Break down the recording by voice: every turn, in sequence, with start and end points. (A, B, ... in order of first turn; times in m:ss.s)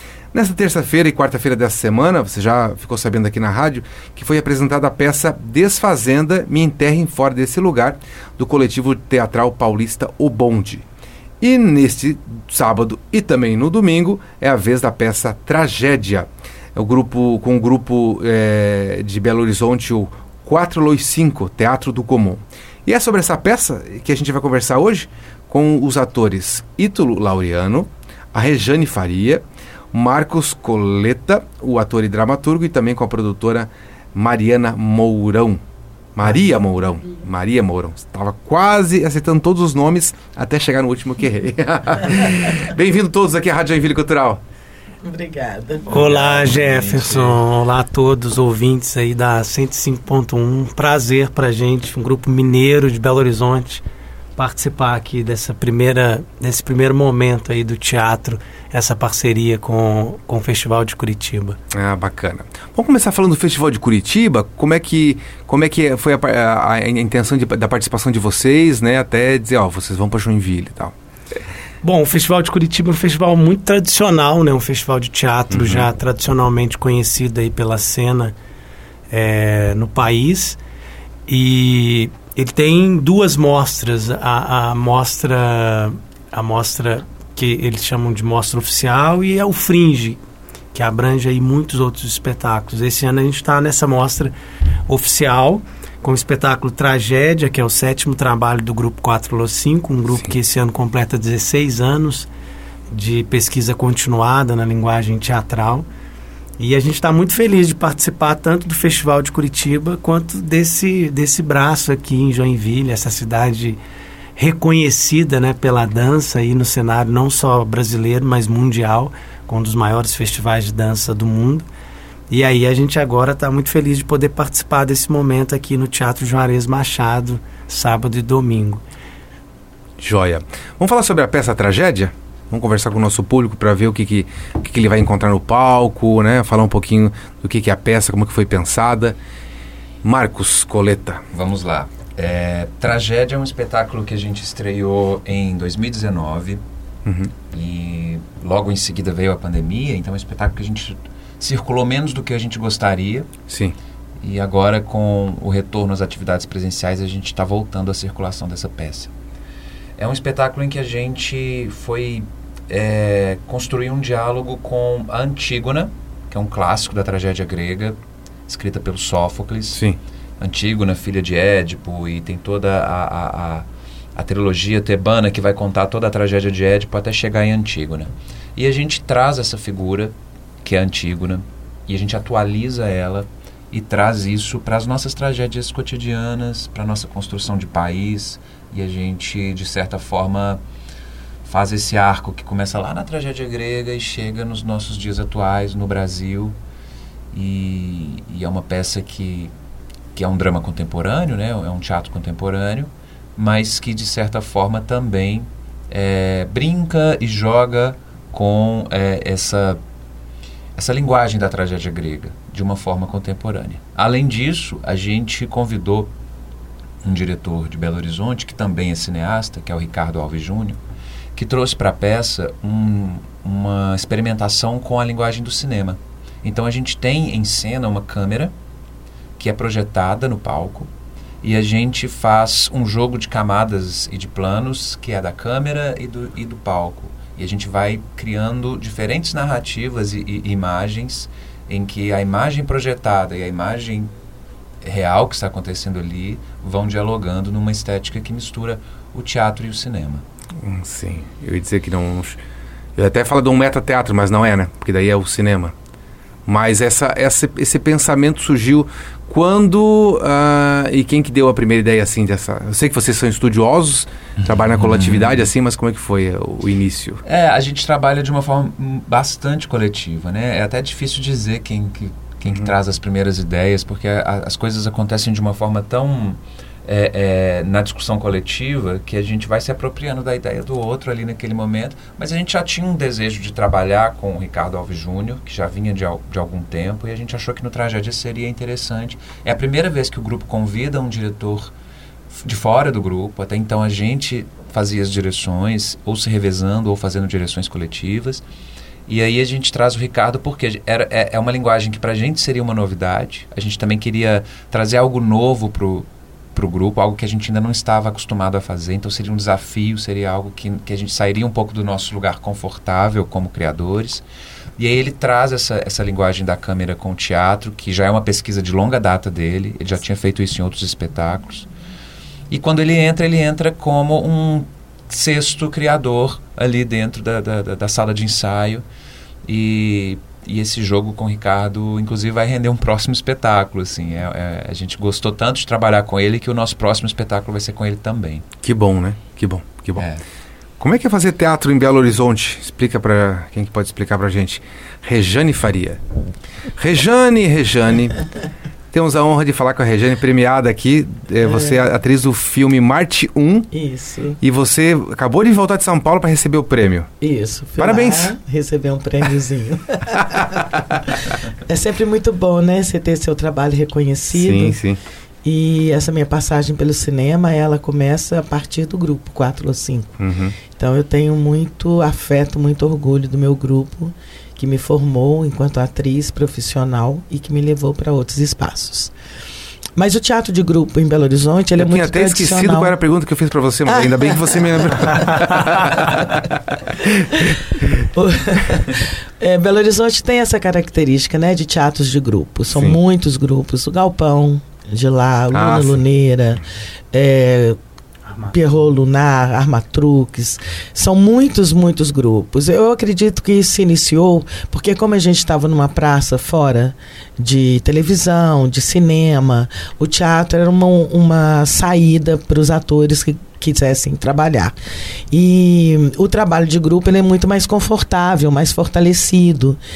0:00.3-0:10.8 A
0:11.4-0:35.6 A
0:36.1-0:44.4 A
0:45.0-0:45.9 B
0:45.9-0:53.8 C
0:45.9-0:47.4 D
0:54.4-1:01.6 C
1:01.7-1:10.9 A
1:11.8-1:18.3 C
1:15.5-1:15.9 A
1:19.1-1:20.6 C
1:21.3-1:30.2 C
1:30.7-1:34.3 C
1:34.9-1:42.3 C
1:40.1-1:40.3 A
1:42.9-1:45.8 C
1:46.6-1:53.8 C
1:54.4-2:01.7 C
2:02.3-2:08.8 C
2:10.0-2:19.2 A
2:20.0-2:21.2 A
2:21.3-2:26.6 D
2:27.0-2:27.3 A
2:27.5-2:33.3 D
2:33.5-2:33.7 A
2:34.2-2:39.1 D
2:40.0-2:49.8 D
2:49.7-2:50.0 A
2:50.4-3:10.6 D
3:11.4-3:16.6 D
3:17.3-3:19.5 D
3:20.1-3:29.8 D
3:30.8-3:36.1 D
3:37.0-3:40.8 D
3:41.3-3:48.5 D
3:49.4-3:50.9 D
3:51.4-4:04.1 D
4:04.8-4:10.2 D
4:10.6-4:12.4 A
4:13.0-4:15.7 A
4:16.4-4:27.2 A
4:24.8-4:25.4 D
4:27.2-4:51.7 D
4:52.3-4:58.4 D
4:59.1-5:14.2 D
5:14.8-5:21.7 D
5:22.5-5:28.8 D
5:29.4-5:38.4 D
5:38.6-5:40.0 A
5:40.8-5:46.0 A
5:46.8-5:48.2 A
5:48.9-5:53.7 A
5:51.5-5:51.8 B
5:53.7-5:54.4 B
5:54.4-5:57.1 A
5:57.2-6:00.6 B
5:57.8-5:58.3 A
6:01.6-6:04.8 B
6:04.3-6:05.0 A
6:05.4-6:10.2 B
6:10.2-6:10.6 A
6:10.7-6:19.1 B
6:20.0-6:23.0 B
6:21.8-6:26.5 A
6:23.8-6:25.0 B
6:28.0-6:37.8 B
6:32.7-6:33.0 A
6:35.5-6:36.0 A
6:38.2-6:38.5 C
6:38.5-6:54.7 B
6:55.3-6:59.8 B